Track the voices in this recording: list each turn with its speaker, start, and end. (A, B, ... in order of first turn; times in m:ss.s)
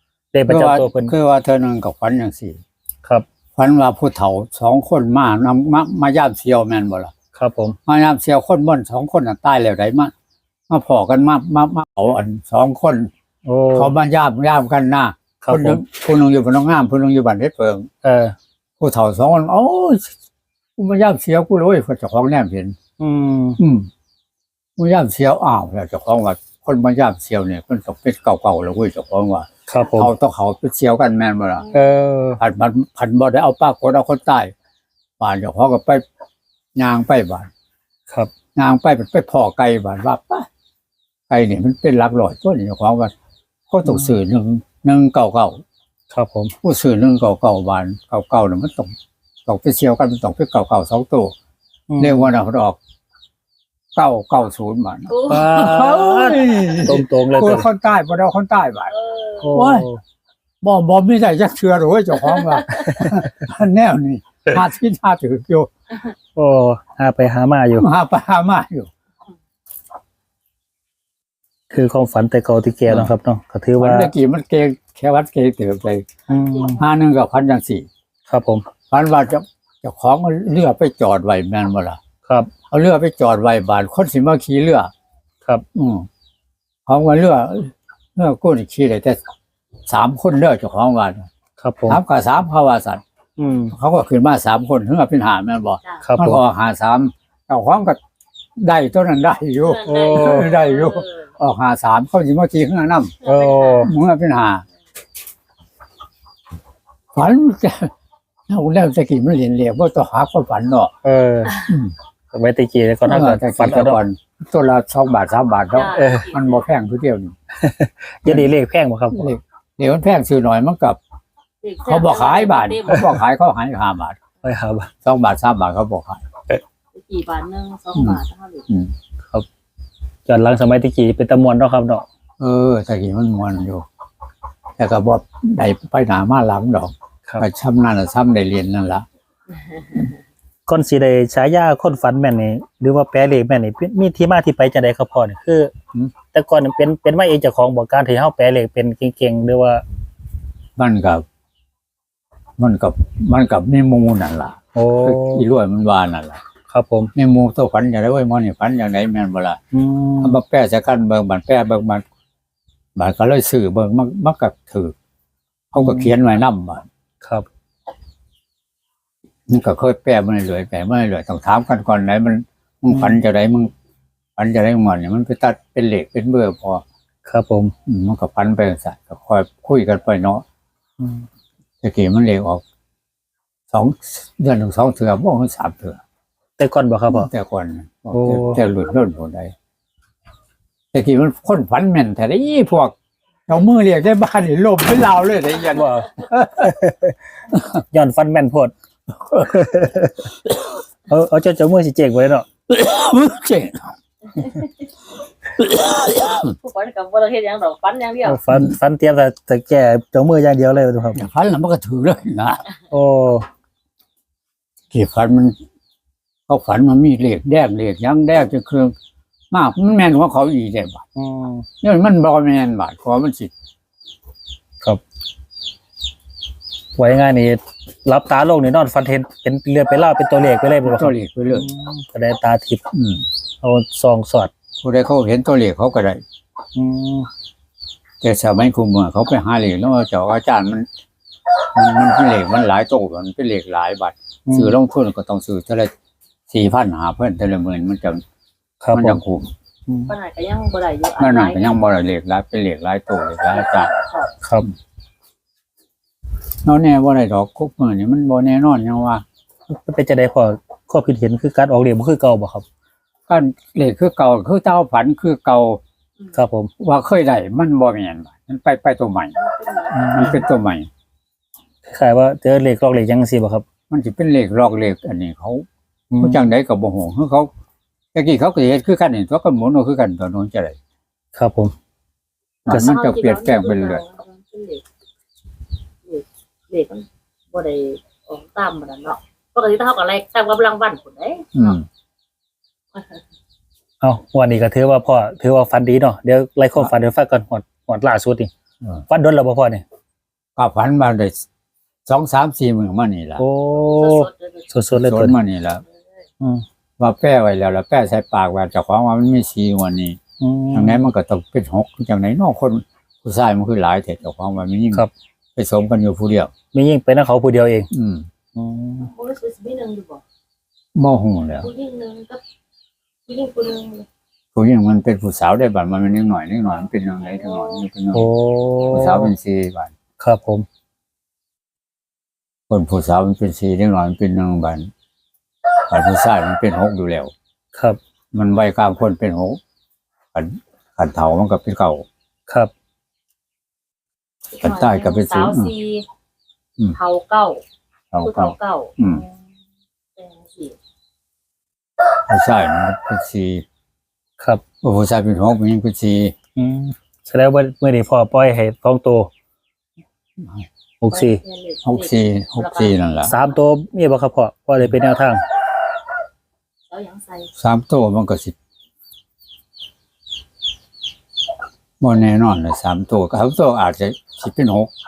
0:00.3-0:01.1 A
0:00.5-0:02.6 B
0:03.6-0:07.1 B
0:07.3-0:07.8 A
0:07.9-0:10.1 B
0:10.7-0:13.1 B
0:13.4-0:13.9 A
0:13.7-0:17.9 B
0:15.4-0:15.8 A
0:18.0-0:18.4 A
0:18.8-0:20.1 B
0:20.8-0:22.8 B
0:23.0-0:23.6 A
0:23.6-0:23.9 B
0:24.8-0:31.7 B
0:29.7-0:30.1 A
0:31.6-0:31.9 C
0:31.7-0:32.4 A
0:32.4-0:34.5 B
0:35.2-0:36.0 B
0:36.8-0:37.5 B
0:38.6-0:40.5 B
0:41.3-0:43.1 B
0:43.7-0:45.6 B
0:43.9-0:44.1 A
0:46.1-0:46.5 A
0:46.6-0:48.9 B
0:49.5-0:51.3 B
0:51.9-0:52.3 A
0:52.0-0:52.8 B
0:54.0-0:58.9 B
0:55.1-0:55.8 C
0:55.3-0:57.7 A
0:58.9-0:59.5 C
0:59.4-1:00.0 A
0:59.5-0:59.9 B
1:00.6-1:05.7 B
1:02.8-1:03.3 A
1:06.4-1:07.9 A
1:07.8-1:08.9 B
1:11.7-1:14.1 A
1:13.8-1:16.1 B
1:16.3-1:16.8 A
1:16.7-1:17.9 B
1:18.3-1:18.6 A
1:18.9-1:22.0 B
1:22.3-1:22.5 A
1:22.7-1:24.9 B
1:25.8-1:26.1 B
1:26.9-1:29.2 B
1:29.9-1:31.3 B
1:31.6-1:32.0 A
1:31.9-1:33.0 B
1:33.4-1:33.7 A
1:33.7-1:38.0 B
1:36.0-1:36.4 A
1:38.6-1:43.2 B
1:39.6-1:41.3 C
1:39.9-1:40.5 A
1:43.2-1:43.9 C
1:43.2-1:43.9 A
1:43.8-1:44.6 B
1:47.1-1:47.9 B
1:48.5-1:50.9 B
1:51.0-1:51.6 A
1:51.6-1:51.9 B
1:52.3-1:54.0 A
1:53.1-1:57.4 B
1:55.7-1:56.6 C
1:56.0-1:56.3 A
1:57.6-1:59.3 A
1:59.1-2:01.0 B
2:01.6-2:03.1 C
2:01.9-2:04.2 B
2:04.4-2:04.9 A
2:05.0-2:06.2 B
2:06.9-2:08.7 C
2:08.0-2:08.9 B
2:10.3-2:12.1 A
2:12.4-2:13.8 B
2:14.8-2:19.1 B
2:20.7-2:25.7 A
2:26.3-2:29.8 A
2:30.8-2:31.2 B
2:32.6-2:36.4 B
2:34.8-2:35.4 A
2:36.7-2:37.1 A
2:37.2-2:39.6 B
2:39.7-2:40.4 A
2:40.2-2:42.0 B
2:43.0-2:44.9 B
2:45.7-2:46.9 B
2:45.8-2:46.1 A
2:47.2-2:47.5 A
2:49.5-2:53.7 B
2:52.9-2:53.2 A
2:54.4-2:56.8 B
2:57.3-2:57.7 A
2:57.9-3:00.4 B
3:01.8-3:02.6 B
3:03.7-3:06.0 B
3:06.6-3:07.3 A
3:07.1-3:09.5 B
3:08.1-3:08.6 A
3:10.9-3:13.0 B
3:13.5-3:16.8 B
3:15.7-3:17.2 A
3:17.7-3:18.7 A
3:19.2-3:19.6 B
3:19.4-3:20.3 A
3:21.1-3:22.5 A
3:22.7-3:23.9 B
3:24.4-3:24.9 C
3:25.6-3:26.5 B
3:26.0-3:28.4 C
3:28.2-3:31.2 A
3:31.2-3:32.6 B
3:32.9-3:33.5 A
3:34.9-3:35.6 B
3:36.5-3:39.0 B
3:39.5-3:41.1 B
3:41.2-3:41.7 A
3:41.8-3:43.5 B
3:47.0-3:52.8 A
3:50.8-3:51.7 B
3:52.9-3:53.2 B
3:53.6-3:54.5 A
3:54.8-3:56.2 B
3:56.8-3:57.3 A
3:58.2-4:00.9 B
4:01.7-4:05.9 B
4:04.5-4:04.8 A
4:06.5-4:08.2 B
4:08.8-4:09.2 A
4:08.9-4:09.5 B
4:09.9-4:10.1 A
4:10.1-4:11.8 C
4:11.2-4:13.9 B
4:13.5-4:14.3 C
4:14.4-4:14.7 A
4:16.7-4:19.2 B
4:19.7-4:22.6 A
4:23.3-4:25.8 B
4:26.3-4:26.7 A
4:26.8-4:29.4 B
4:29.4-4:30.4 C
4:29.9-4:30.9 B
4:31.8-4:33.6 A
4:33.9-4:35.7 B
4:36.1-4:36.5 A
4:36.2-4:37.5 B
4:38.1-4:40.8 B
4:41.4-4:41.7 A
4:42.7-4:44.0 B
4:42.7-4:44.8 C
4:46.0-4:51.8 C
4:51.6-4:51.8 B
4:54.0-4:58.5 A
4:59.1-4:59.8 A
5:00.6-5:01.4 B
5:02.1-5:03.4 B
5:03.4-5:05.4 A
5:03.8-5:04.7 C
5:04.9-5:05.8 B
5:07.0-5:10.2 B
5:10.4-5:11.1 A
5:10.7-5:16.5 B
5:16.7-5:17.9 A
5:17.9-5:18.3 B
5:18.6-5:19.1 A
5:19.0-5:20.2 C
5:21.0-5:21.7 B
5:21.6-5:22.4 C
5:23.3-5:24.1 C
5:24.6-5:28.3 B
5:27.0-5:27.9 C
5:28.1-5:29.3 A
5:28.9-5:29.9 B
5:30.2-5:30.7 A
5:32.7-5:34.9 B
5:35.9-5:37.3 B
5:37.7-5:38.0 A
5:38.3-5:39.6 B
5:40.3-5:42.1 B
5:44.5-5:46.0 C
5:44.6-5:45.7 B
5:47.0-5:47.6 C
5:48.1-5:49.2 B
5:48.2-5:49.3 C
5:50.2-5:50.8 C
5:52.3-5:53.6 B
5:54.8-5:56.4 B
5:56.6-5:59.3 A
6:00.4-6:00.7 B
6:01.0-6:01.4 A
6:01.1-6:03.0 C
6:01.8-6:03.3 B
6:03.2-6:05.4 A
6:06.9-6:07.5 C
6:07.6-6:08.6 B
6:12.0-6:14.9 B